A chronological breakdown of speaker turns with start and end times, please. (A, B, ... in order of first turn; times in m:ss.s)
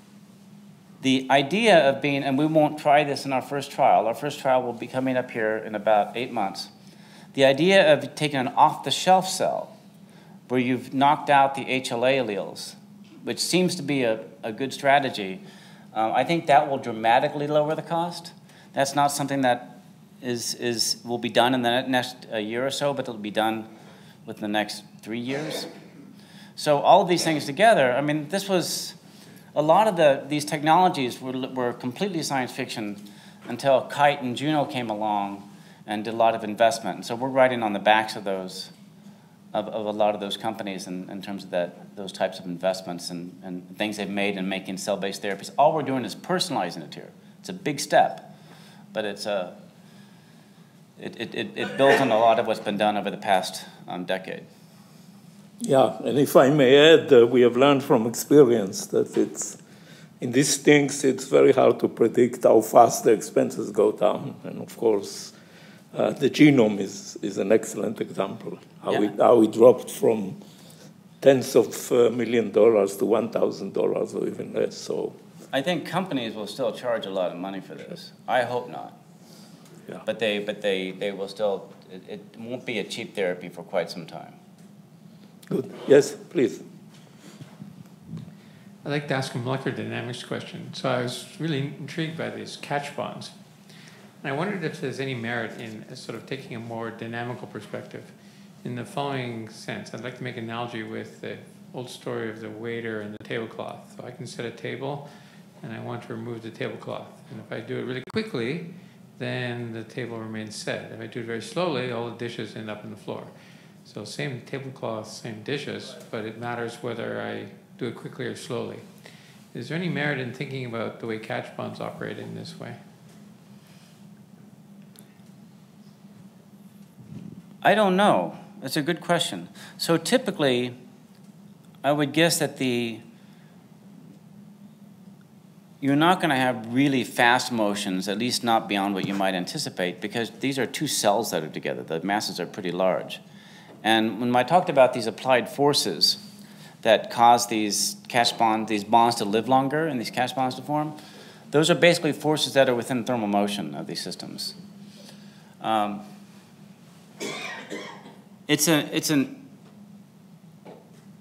0:01.0-0:06.7 A
0:07.3-0:09.7 A
0:10.5-0:15.4 A
0:15.9-0:23.7 A
0:24.3-0:25.7 A
0:26.6-0:29.0 A
0:29.5-0:38.7 A
0:39.5-0:48.3 A
0:48.9-0:49.6 A
0:51.0-0:54.5 A
0:55.6-0:59.6 B
1:00.2-1:05.3 B
1:05.9-1:10.4 B
1:08.9-1:09.1 A
1:11.2-1:15.2 B
1:15.5-1:19.0 A
1:20.0-1:24.4 A
1:25.5-1:26.6 B
1:28.8-1:33.4 C
1:34.2-1:45.1 C
1:45.6-1:53.3 C
1:53.8-1:58.9 C
1:59.5-2:02.8 C
2:07.6-2:10.8 A
2:11.8-2:13.0 A
2:15.8-2:23.2 A
2:23.8-2:26.2 A
2:26.8-2:31.0 A
2:31.5-2:34.6 A
2:35.6-2:36.0 A
2:38.5-2:39.4 A